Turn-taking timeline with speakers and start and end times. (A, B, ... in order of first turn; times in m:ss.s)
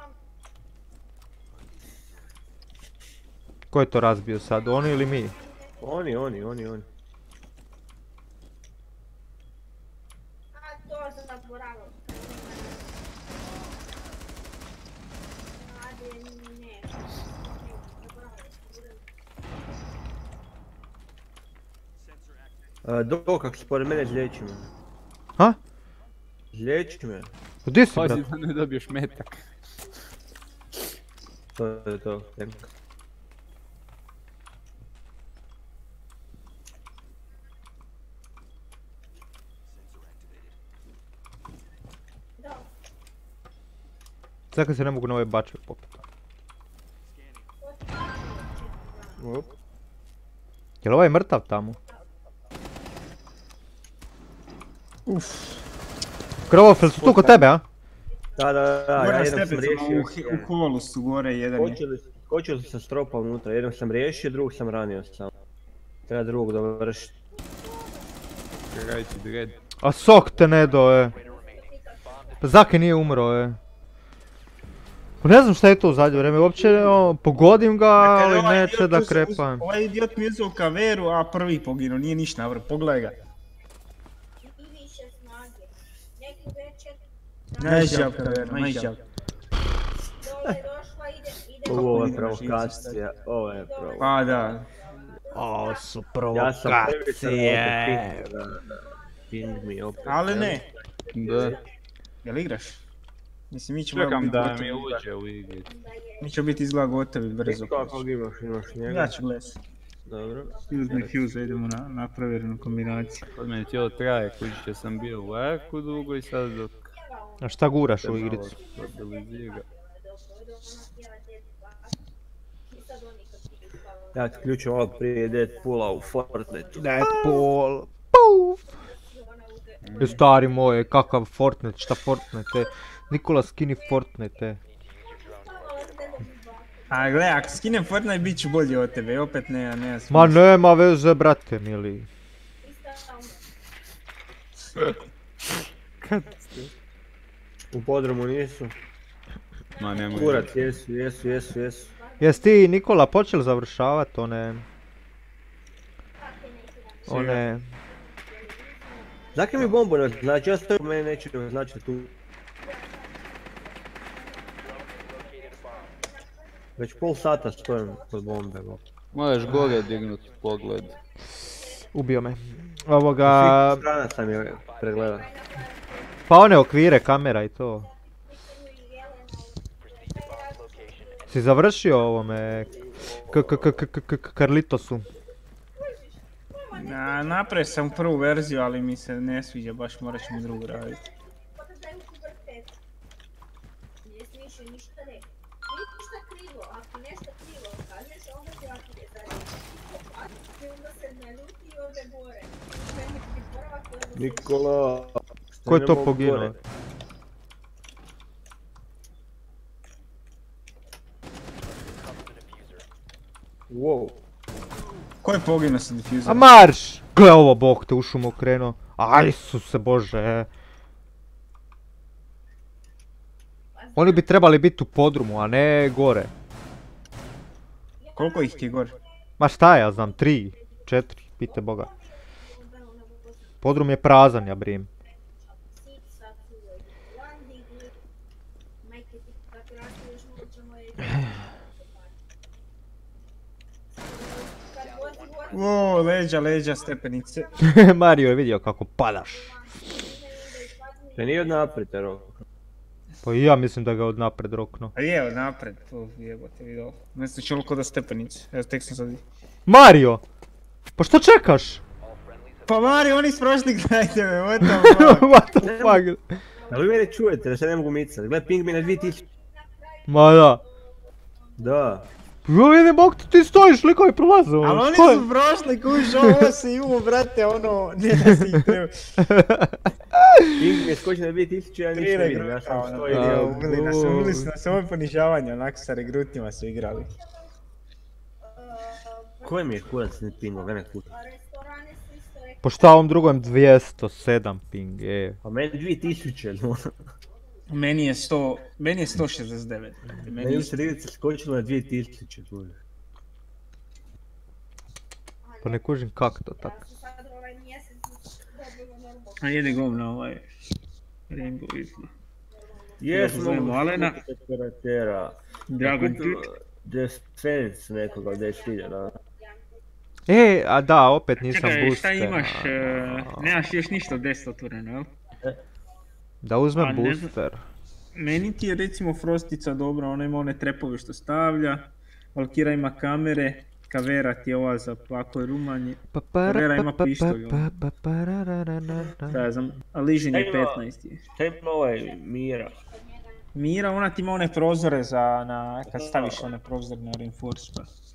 0:03.7-0:05.4 A
0:05.8-0:06.8 B
0:22.8-0:24.7 B
0:26.5-0:27.3 B
0:27.6-0:28.2 A
0:27.9-0:29.4 C
0:31.6-0:32.6 B
0:44.5-0:45.9 A
0:49.2-0:49.5 B
0:50.8-0:51.8 A
0:55.1-0:55.6 D
0:56.5-0:57.6 A
0:56.9-0:57.5 B
0:58.4-1:00.5 B
0:58.9-1:01.8 D
1:01.6-1:05.3 B
1:06.1-1:07.1 B
1:08.7-1:09.5 C
1:09.8-1:11.1 A
1:10.5-1:12.4 E
1:12.4-1:13.6 A
1:15.2-1:19.7 A
1:18.0-1:23.2 D
1:27.6-1:29.0 D
1:27.6-1:28.9 B
1:31.6-1:34.3 B
1:31.7-1:33.0 D
1:34.0-1:34.7 D
1:35.3-1:38.3 A
1:36.3-1:41.6 B
1:40.0-1:40.7 D
1:41.1-1:41.6 C
1:42.2-1:42.8 D
1:43.5-1:44.9 D
1:43.9-1:45.7 C
1:46.2-1:48.0 D
1:47.4-1:49.2 B
1:48.8-1:49.6 D
1:50.0-1:51.2 B
1:50.7-1:53.2 D
1:53.3-1:56.8 C
1:57.4-1:58.6 A
1:58.0-1:59.6 C
2:04.1-2:07.1 B
2:06.8-2:08.6 A
2:09.8-2:10.2 C
2:10.0-2:14.6 A
2:14.6-2:16.3 E
2:16.9-2:20.4 D
2:20.1-2:22.1 A
2:26.0-2:26.4 A
2:27.7-2:28.7 B
2:29.8-2:30.6 C
2:30.1-2:31.9 B
2:32.2-2:34.6 A
2:37.1-2:37.4 B
2:37.1-2:37.7 A
2:39.3-2:42.1 B
2:44.6-2:46.0 E
2:46.8-2:48.8 B
2:49.1-2:51.0 C
2:50.0-2:50.8 E
2:51.6-2:53.8 A
2:53.2-2:55.3 B
2:54.5-2:55.0 E
2:56.3-2:57.9 A
2:59.8-3:01.3 E
3:01.3-3:05.1 A
3:03.1-3:03.6 B
3:06.7-3:11.0 D
3:24.1-3:26.6 B
3:25.6-3:26.5 A
3:31.6-3:32.8 E
3:33.7-3:34.1 B
3:35.2-3:36.5 D
3:36.2-3:40.5 A
3:43.9-3:46.3 A
3:48.1-3:49.0 D
3:49.4-3:51.9 A
3:53.6-3:54.9 A
4:04.7-4:06.2 E
4:05.5-4:07.5 D
4:07.6-4:09.6 A
4:11.2-4:12.4 B
4:13.2-4:14.9 A
4:14.9-4:19.2 D
4:19.7-4:20.2 A
4:21.0-4:21.8 A
4:22.0-4:22.9 E
4:22.7-4:25.3 D
4:24.6-4:26.4 A
4:25.6-4:26.0 B
4:26.7-4:29.2 B
4:30.1-4:30.6 A
4:31.6-4:32.0 B
4:32.5-4:35.3 A
4:34.6-4:39.1 D
4:36.2-4:36.5 A
4:38.3-4:38.6 A
4:39.2-4:40.7 A
4:40.6-4:43.7 B
4:41.9-4:47.1 D
4:43.2-4:44.5 A
4:43.6-4:44.3 C
4:49.4-4:51.2 B
4:52.6-4:55.4 A
4:55.4-4:56.9 B
4:57.7-5:00.8 D
5:00.1-5:02.8 B
5:05.6-5:06.8 A
5:09.4-5:10.5 D
5:11.3-5:12.1 D
5:13.0-5:19.2 B
5:13.1-5:14.2 D
5:15.7-5:16.4 D
5:20.3-5:23.5 A
5:21.4-5:25.1 D
5:26.4-5:27.6 A
5:26.7-5:27.3 D
5:28.1-5:37.7 D
5:36.1-5:39.5 A
5:39.2-5:41.2 D
5:40.3-5:40.8 B
5:41.3-5:42.8 B
5:43.5-5:47.9 D
5:45.9-5:46.4 B